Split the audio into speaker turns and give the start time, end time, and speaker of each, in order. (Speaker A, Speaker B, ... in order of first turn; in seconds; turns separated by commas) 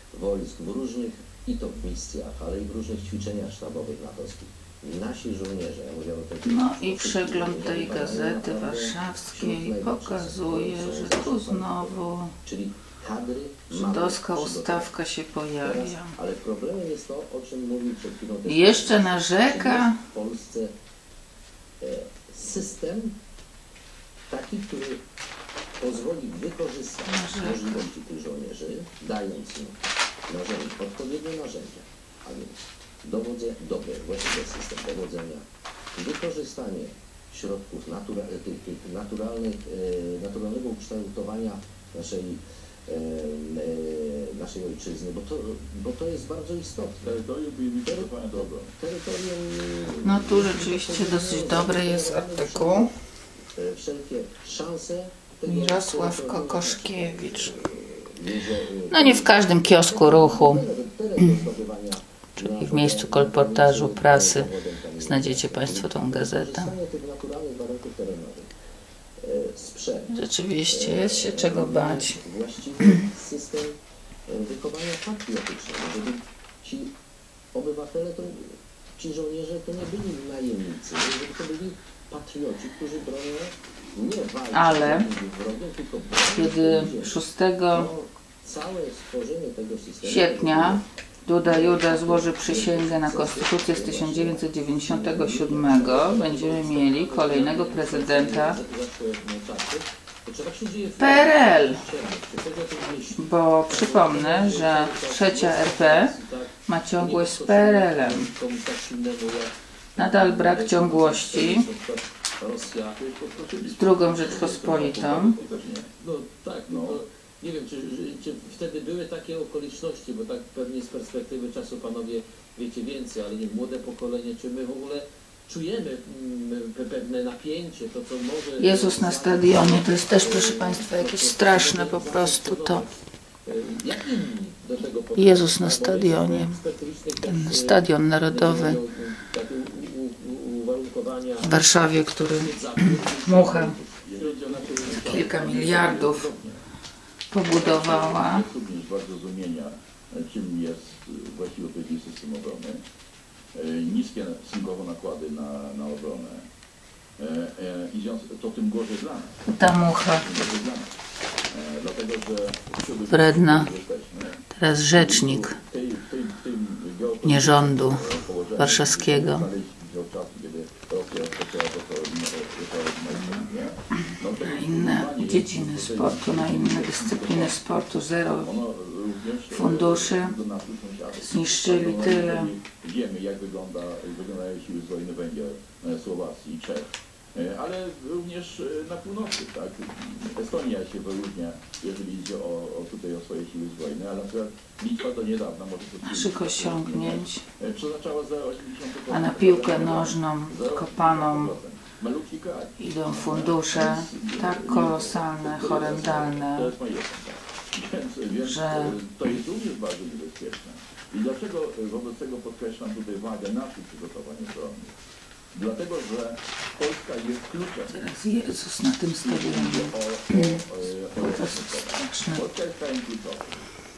Speaker A: 0.1-14.9, Speaker B: 6.4-12.3, Speaker B: 13.7-16.1, Speaker A: 15.6-20.7, Speaker B: 18.5-20.0, Speaker A: 21.8-23.2, Speaker A: 24.3-25.0, Speaker A: 25.8-47.2, Speaker B: 27.1-27.9, Speaker C: 47.0-48.7, Speaker A: 47.9-48.1, Speaker A: 48.8-52.9, Speaker B: 50.0-52.9, Speaker A: 53.5-68.5, Speaker B: 55.5-57.5, Speaker B: 58.9-61.5, Speaker B: 62.4-66.8, Speaker A: 69.2-70.1, Speaker B: 70.1-72.2, Speaker A: 70.7-76.9, Speaker A: 77.5-87.2, Speaker B: 84.5-85.1, Speaker B: 86.3-87.9, Speaker A: 87.7-90.8, Speaker B: 90.0-98.6, Speaker A: 91.4-95.6, Speaker D: 95.5-113.0, Speaker B: 101.0-101.8, Speaker B: 103.2-106.1, Speaker B: 106.7-108.3, Speaker B: 110.0-111.7, Speaker C: 113.0-115.9, Speaker B: 113.8-115.4, Speaker D: 116.0-132.9, Speaker C: 116.7-117.0, Speaker B: 128.6-132.8, Speaker D: 133.4-145.2, Speaker B: 135.2-136.6, Speaker B: 137.2-138.8, Speaker B: 141.4-143.8, Speaker C: 143.3-146.6, Speaker B: 144.9-146.3, Speaker B: 147.3-148.4, Speaker C: 147.5-152.8, Speaker C: 153.5-156.5, Speaker C: 157.2-160.9, Speaker B: 159.5-160.3, Speaker C: 161.5-177.6, Speaker B: 163.1-163.7, Speaker B: 164.5-165.6, Speaker B: 167.2-169.5, Speaker B: 173.1-173.4, Speaker B: 174.4-178.5, Speaker C: 178.4-215.0, Speaker B: 179.5-180.3, Speaker B: 181.2-182.5, Speaker B: 196.0-197.4, Speaker B: 199.1-201.5, Speaker B: 202.8-206.7, Speaker B: 208.4-209.0, Speaker C: 215.5-218.0, Speaker B: 217.9-220.6, Speaker C: 219.2-223.6, Speaker B: 221.2-222.4